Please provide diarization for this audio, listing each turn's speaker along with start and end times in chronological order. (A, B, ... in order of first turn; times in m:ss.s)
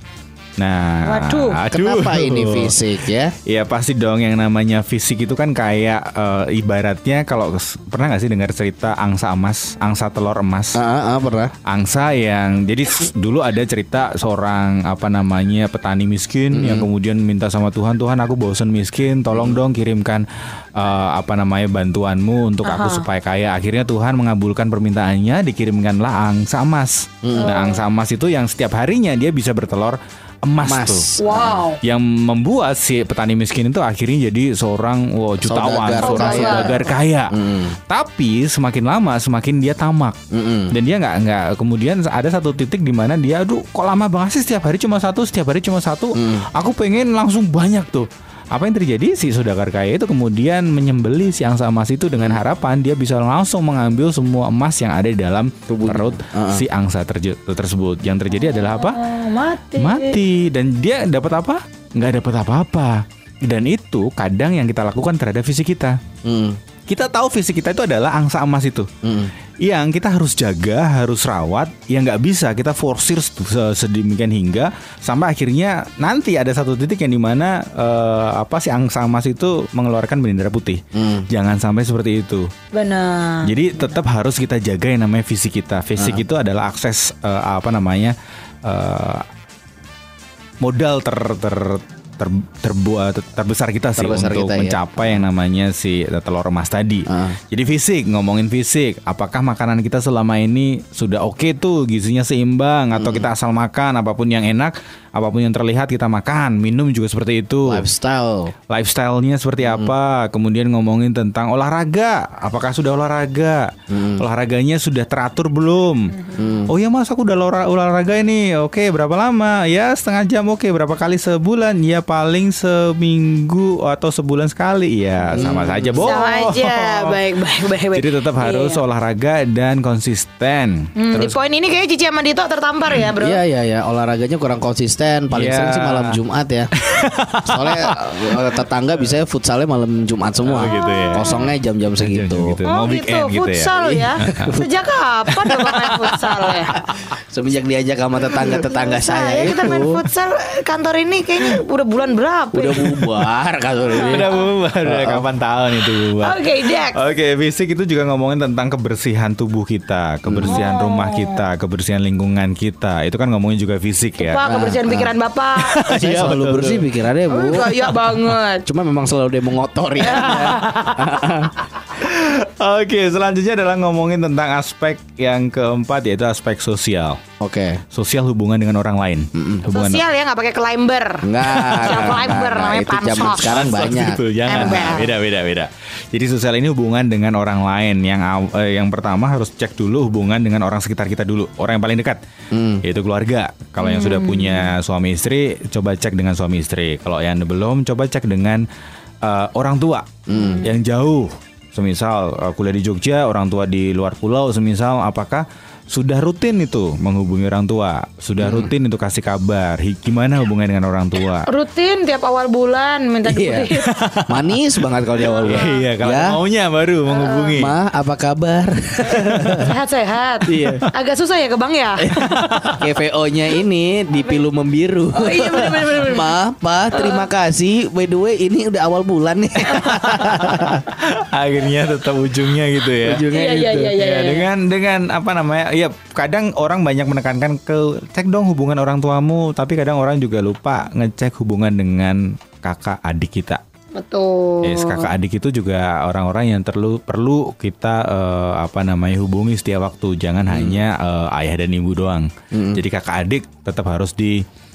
0:00.6-0:02.8 A
0:01.0-0:01.6 B
0:01.7-0:03.3 C
0:03.4-0:10.8 A
0:10.7-0:11.5 C
0:11.6-0:31.1 A
0:16.5-0:16.9 C
0:19.3-0:19.6 C
0:22.6-0:23.0 B
0:27.2-0:27.5 C
0:27.4-0:27.8 B
0:30.6-0:31.6 C
0:31.2-0:31.8 B
0:31.8-0:40.2 A
0:35.4-0:36.8 C
0:36.0-0:37.0 B
0:37.3-0:37.8 C
0:40.3-0:40.7 C
0:40.7-0:59.0 A
0:46.1-0:46.5 C
0:55.7-0:56.6 C
0:58.4-1:00.2 B
0:59.8-1:06.0 A
1:06.2-1:06.6 C
1:06.9-1:08.9 A
1:09.0-1:09.3 C
1:09.6-1:22.5 A
1:20.9-1:21.2 C
1:22.7-1:23.6 B
1:23.4-1:29.3 A
1:26.0-1:26.2 C
1:30.6-1:47.9 A
1:34.0-1:35.2 C
1:37.1-1:37.4 C
1:43.0-1:43.2 C
1:47.6-1:48.5 C
1:48.7-2:07.2 A
1:49.6-1:49.9 C
1:53.9-1:54.2 C
1:56.4-1:56.7 C
2:05.3-2:06.1 C
2:05.3-2:08.8 B
2:07.9-2:11.4 A
2:11.0-2:13.4 B
2:13.2-2:16.7 C
2:15.3-2:16.2 A
2:16.8-2:18.6 A
2:17.4-2:22.6 C
2:20.4-2:21.5 A
2:20.6-2:21.5 B
2:22.0-2:24.6 A
2:22.6-2:26.8 B
2:24.2-2:24.7 C
2:25.3-2:27.1 A
2:27.1-2:30.0 C
2:28.6-2:33.1 B
2:32.5-2:34.3 C
2:33.9-2:34.5 B
2:34.0-2:44.4 A
2:34.8-2:35.2 C
2:36.2-2:37.0 B
2:40.2-2:40.6 C
2:40.5-2:41.4 B
2:44.2-2:45.8 B
2:44.4-2:45.1 C
2:45.6-2:46.9 A
2:45.9-2:47.8 C
2:47.3-2:48.6 B
2:47.7-2:48.4 A
2:48.6-2:51.5 C
2:50.0-2:51.0 B
2:50.1-2:51.1 A
2:51.8-2:57.2 A
2:57.4-2:57.8 C
2:57.9-3:00.0 A
2:59.3-2:59.6 C
2:59.7-3:03.7 B
3:01.2-3:04.9 C
3:01.5-3:02.4 A
3:03.4-3:12.2 A
3:04.5-3:05.1 B
3:12.5-3:12.8 C
3:12.8-3:18.6 A
3:13.8-3:14.7 B
3:19.2-3:31.5 A
3:20.3-3:20.7 C
3:20.4-3:20.7 B
3:28.4-3:28.7 C
3:31.5-3:33.9 B
3:33.2-3:33.7 C
3:33.7-3:34.8 A
3:34.3-3:36.4 C
3:35.2-3:35.9 B
3:35.4-3:37.7 A
3:37.1-3:37.6 B
3:37.6-3:39.7 C
3:39.1-3:42.6 B
3:40.5-3:40.8 C
3:40.5-3:40.9 A
3:42.0-3:50.8 C
3:42.2-3:42.9 A
3:45.1-3:46.4 B
3:46.9-3:47.3 B
3:49.7-3:53.3 A
3:53.0-3:54.0 C
3:53.3-3:54.5 B
3:53.9-4:03.6 A
4:04.0-4:05.1 B
4:04.6-4:14.4 A
4:10.5-4:10.8 C
4:12.5-4:12.8 C